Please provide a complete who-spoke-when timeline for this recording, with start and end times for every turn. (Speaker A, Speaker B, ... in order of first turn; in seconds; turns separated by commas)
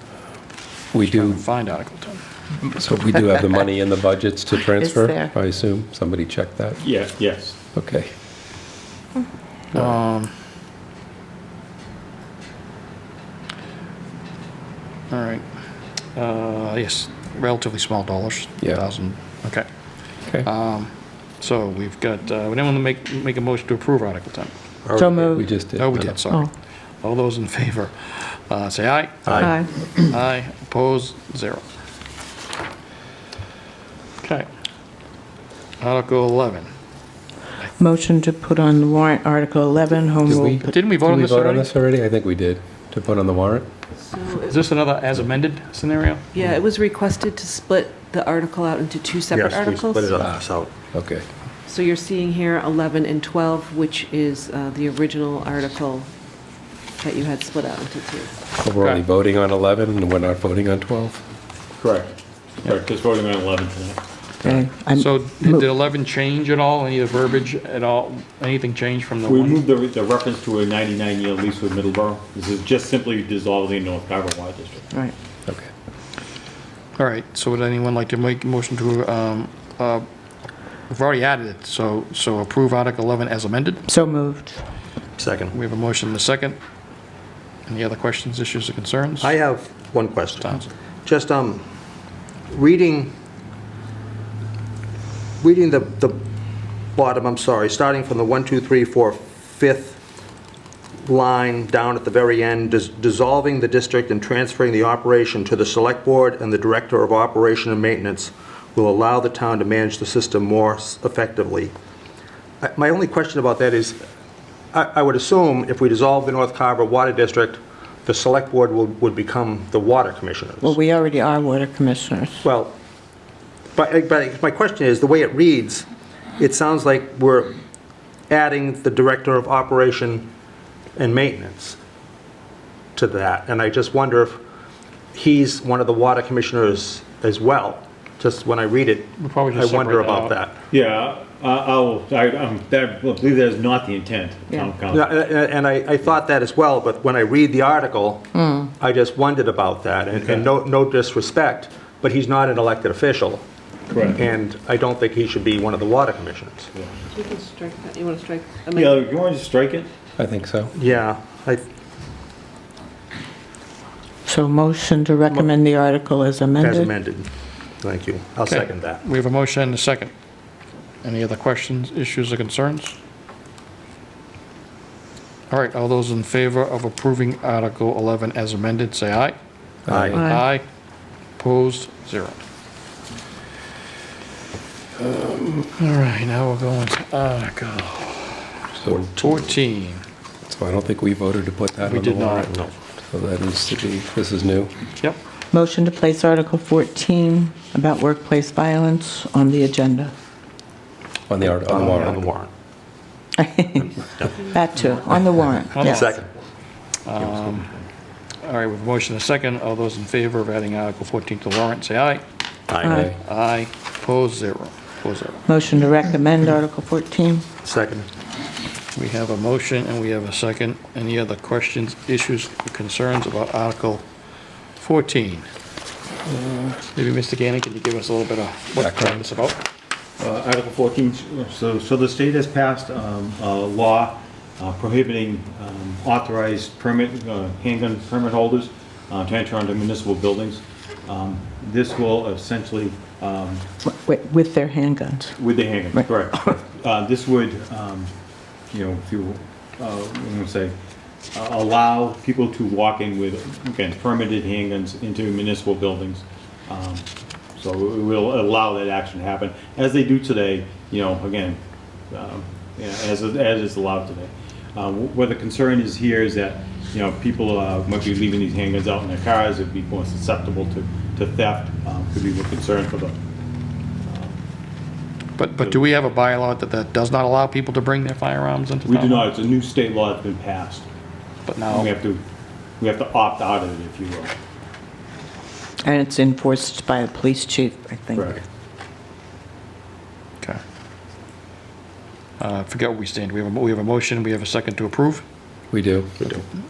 Speaker A: 0.9-1.4, Speaker B: 1.0-2.2, Speaker A: 2.6-6.8, Speaker C: 4.5-5.3, Speaker D: 6.8-7.6, Speaker A: 7.7-8.1, Speaker B: 9.7-10.3, Speaker B: 15.1-15.4, Speaker B: 16.1-19.7, Speaker B: 20.4-24.5, Speaker E: 24.9-25.4, Speaker C: 25.0-25.4, Speaker A: 25.3-26.2, Speaker B: 25.8-26.5, Speaker B: 27.0-31.6, Speaker E: 29.3-29.5, Speaker C: 29.4-29.7, Speaker B: 34.2-34.5, Speaker B: 35.8-36.7, Speaker C: 37.8-40.9, Speaker A: 40.3-43.7, Speaker B: 40.5-41.7, Speaker F: 44.1-44.5, Speaker B: 44.5-46.2, Speaker F: 46.3-50.2, Speaker E: 49.3-50.7, Speaker A: 50.9-51.2, Speaker F: 51.7-56.1, Speaker F: 57.0-58.3, Speaker A: 58.6-61.2, Speaker D: 61.8-64.0, Speaker C: 64.4-65.7, Speaker B: 64.9-69.6, Speaker D: 69.2-74.9, Speaker B: 77.0-80.0, Speaker B: 80.9-83.8, Speaker C: 83.9-84.6, Speaker E: 85.2-85.5, Speaker B: 85.5-86.6, Speaker B: 87.7-89.4, Speaker E: 89.2-91.7, Speaker B: 90.4-90.7, Speaker E: 92.5-93.1, Speaker E: 95.4-96.2, Speaker E: 97.0-100.0, Speaker E: 101.0-111.7, Speaker E: 112.6-114.0, Speaker E: 114.7-120.8, Speaker C: 120.6-122.5, Speaker E: 122.4-122.8, Speaker E: 123.8-125.9, Speaker E: 126.4-127.5, Speaker E: 128.3-130.3, Speaker E: 131.0-131.8, Speaker E: 132.9-134.4, Speaker E: 135.1-140.6, Speaker B: 139.2-140.4, Speaker D: 140.7-145.2, Speaker E: 144.9-153.4, Speaker C: 148.4-148.6, Speaker D: 150.2-150.5, Speaker D: 153.9-154.2, Speaker E: 154.2-156.7, Speaker F: 157.1-158.6, Speaker D: 158.6-159.9, Speaker A: 160.2-160.7, Speaker E: 160.7-161.7, Speaker C: 164.3-166.9, Speaker E: 166.6-167.3, Speaker E: 167.8-169.0, Speaker B: 168.5-170.1, Speaker B: 171.0-173.0, Speaker B: 175.5-179.4, Speaker A: 179.9-180.2, Speaker E: 179.9-180.2, Speaker B: 180.1-180.7, Speaker B: 181.4-182.4, Speaker B: 185.0-190.0, Speaker A: 190.4-194.7, Speaker B: 191.8-192.6, Speaker C: 195.5-200.1, Speaker A: 201.3-202.3, Speaker E: 201.4-202.5, Speaker C: 203.4-203.9, Speaker E: 203.8-204.5, Speaker C: 204.5-206.1, Speaker B: 205.7-206.1, Speaker E: 205.8-206.3, Speaker B: 207.1-207.7, Speaker B: 208.4-212.2, Speaker E: 212.7-213.0, Speaker C: 212.8-213.1, Speaker B: 212.9-215.4, Speaker C: 215.5-217.4, Speaker E: 217.6-218.1, Speaker B: 218.9-224.0, Speaker B: 224.8-225.5, Speaker B: 226.6-229.6, Speaker A: 228.8-229.2, Speaker D: 230.2-243.6, Speaker C: 243.8-245.4, Speaker D: 245.4-248.1, Speaker D: 248.7-250.8, Speaker D: 251.3-257.1, Speaker D: 257.6-261.6, Speaker D: 262.1-273.2, Speaker D: 274.0-274.4, Speaker B: 275.4-279.3, Speaker D: 278.9-280.9, Speaker B: 281.5-281.9, Speaker D: 281.7-282.2, Speaker D: 282.8-284.3, Speaker C: 285.8-288.4, Speaker D: 288.1-288.4, Speaker B: 292.4-295.2, Speaker A: 295.7-296.1